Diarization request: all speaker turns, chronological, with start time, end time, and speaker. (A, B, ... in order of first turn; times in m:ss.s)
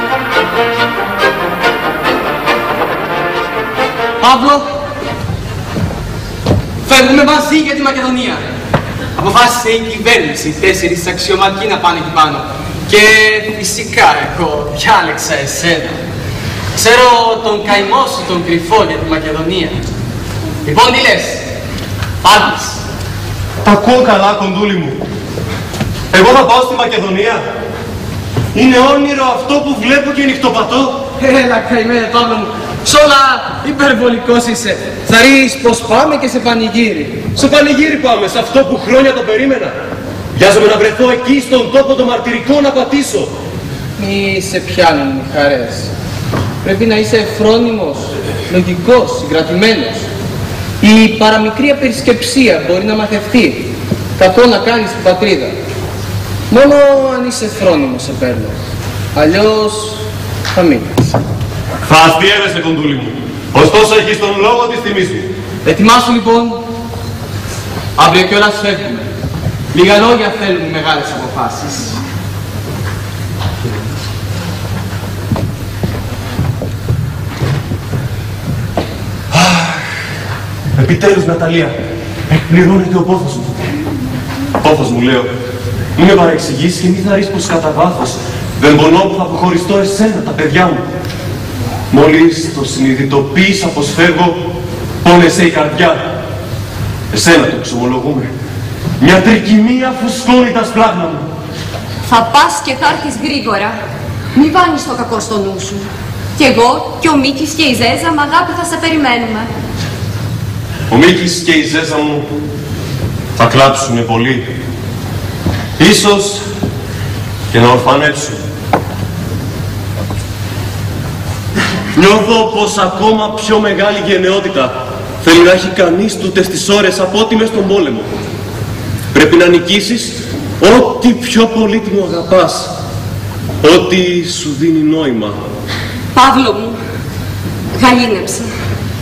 0:04.2-0:04.7 A
0:06.8-0:08.4 A
0:09.2-0:16.0 A
0:16.7-0:19.8 A
0:20.6-0:21.4 A
0:22.2-0:22.7 A
0:23.6-0:25.0 B
0:26.1-0:27.4 B
0:28.5-0:31.0 B
0:31.2-0:37.3 A
0:37.3-0:39.7 B
0:40.3-0:43.3 B
0:44.0-0:45.9 A
0:46.6-0:50.1 A
0:50.8-0:55.5 A
0:56.5-0:58.6 A
0:59.1-1:01.0 A
1:01.8-1:05.3 B
1:05.6-1:06.6 A
1:08.0-1:09.1 A
1:09.7-1:12.0 A
1:19.3-1:19.8 B
1:20.7-1:21.7 B
1:22.3-1:23.5 B
1:24.6-1:25.3 B
1:26.0-1:30.8 B
1:31.9-1:34.4 B
1:35.0-1:36.0 B
1:37.1-1:38.3 B
1:39.0-1:41.2 B
1:42.0-1:43.8 C
1:44.3-1:45.8 C
1:46.4-1:49.5 C
1:50.9-1:52.3 B
1:53.4-1:54.4 B
1:55.8-1:56.4 B
1:57.5-1:58.4 B
2:01.9-2:08.1 B
2:09.1-2:12.7 B
2:13.6-2:15.4 B
2:16.1-2:16.8 C
2:17.7-2:18.5 C